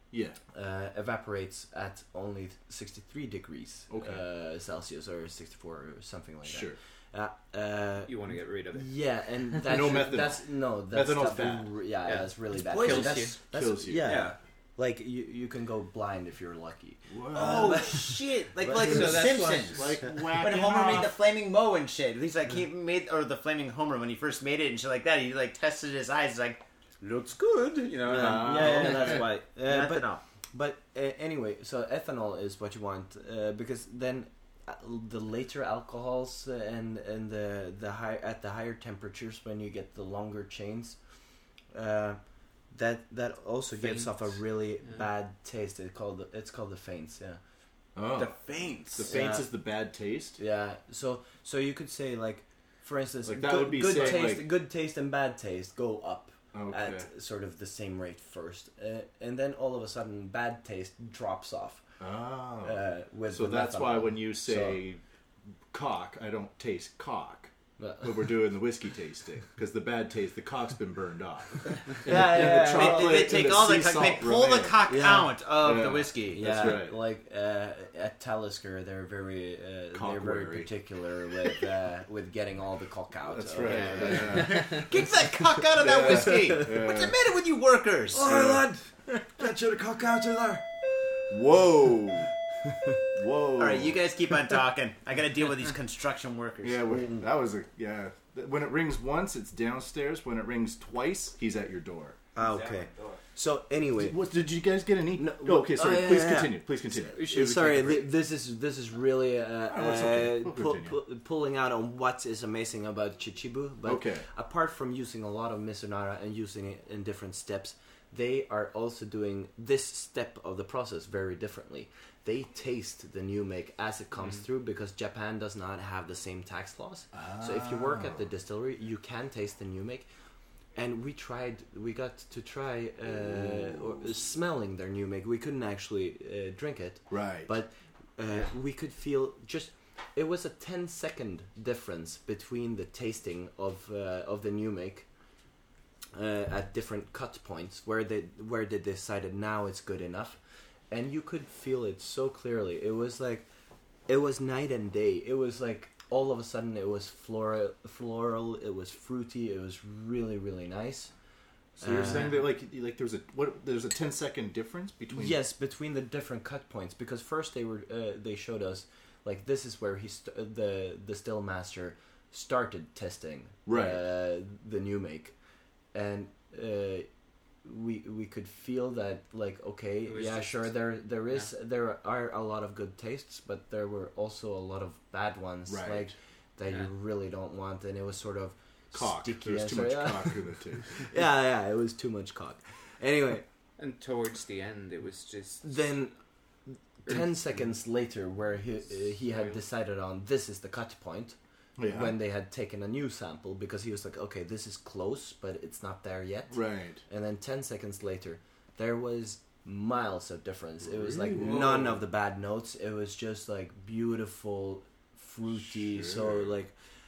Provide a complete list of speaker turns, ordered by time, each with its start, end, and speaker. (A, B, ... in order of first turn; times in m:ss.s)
0:00.1-0:00.4 A
0:00.5-0:19.3 B
0:03.9-0:04.2 A
0:06.4-0:06.8 A
0:08.0-0:08.9 C
0:09.4-0:10.0 C
0:09.6-0:11.8 A
0:12.0-0:13.4 C
0:12.6-0:13.4 D
0:13.5-0:14.2 A
0:14.0-0:14.4 D
0:17.1-0:17.9 A
0:17.3-0:30.2 D
0:18.7-0:19.8 C
0:18.8-0:21.2 A
0:28.0-0:41.0 B
0:28.1-0:29.2 A
0:41.7-0:47.4 B
0:43.8-0:45.0 C
0:48.0-0:50.4 A
0:48.1-0:49.1 D
0:49.0-0:49.5 B
0:50.4-1:01.8 B
0:53.2-0:54.5 A
0:56.5-0:57.1 A
1:02.0-1:05.0 A
1:02.6-1:04.8 B
1:05.7-1:07.5 A
1:07.8-1:08.4 B
1:08.0-1:14.8 A
1:12.0-1:13.9 B
1:12.3-1:16.8 D
1:14.8-1:15.4 B
1:15.6-1:17.0 A
1:16.3-1:24.6 B
1:19.9-1:20.7 A
1:23.3-1:24.9 A
1:23.6-1:28.3 D
1:25.8-1:27.2 A
1:26.0-1:26.7 B
1:28.1-1:30.6 B
1:28.2-1:28.7 A
1:31.3-1:32.3 A
1:33.1-1:34.0 A
1:33.6-1:37.0 D
1:36.6-1:42.2 A
1:42.4-1:44.2 B
1:42.4-1:43.2 D
1:44.0-1:48.1 A
1:45.2-2:10.1 B
1:47.2-1:47.4 C
1:49.7-1:51.0 A
1:53.8-1:54.2 A
2:07.1-2:08.2 A
2:10.7-2:25.1 B
2:13.5-2:13.8 A
2:17.1-2:17.5 A
2:26.1-2:30.4 B
2:30.9-2:33.5 B
2:34.1-2:41.1 B
2:41.8-2:42.4 B
2:41.8-2:45.4 A
2:42.0-2:42.4 C
2:45.1-2:55.3 B
2:53.6-2:54.0 A
2:55.9-2:57.1 B
2:57.6-3:13.4 B
3:00.1-3:00.7 C
3:05.7-3:06.1 A
3:08.9-3:11.1 A
3:13.8-3:15.7 C
3:15.6-3:16.1 B
3:16.7-3:36.7 B
3:19.3-3:19.6 C
3:21.8-3:22.2 A
3:26.5-3:27.0 A
3:30.8-3:32.0 A
3:35.6-3:36.5 A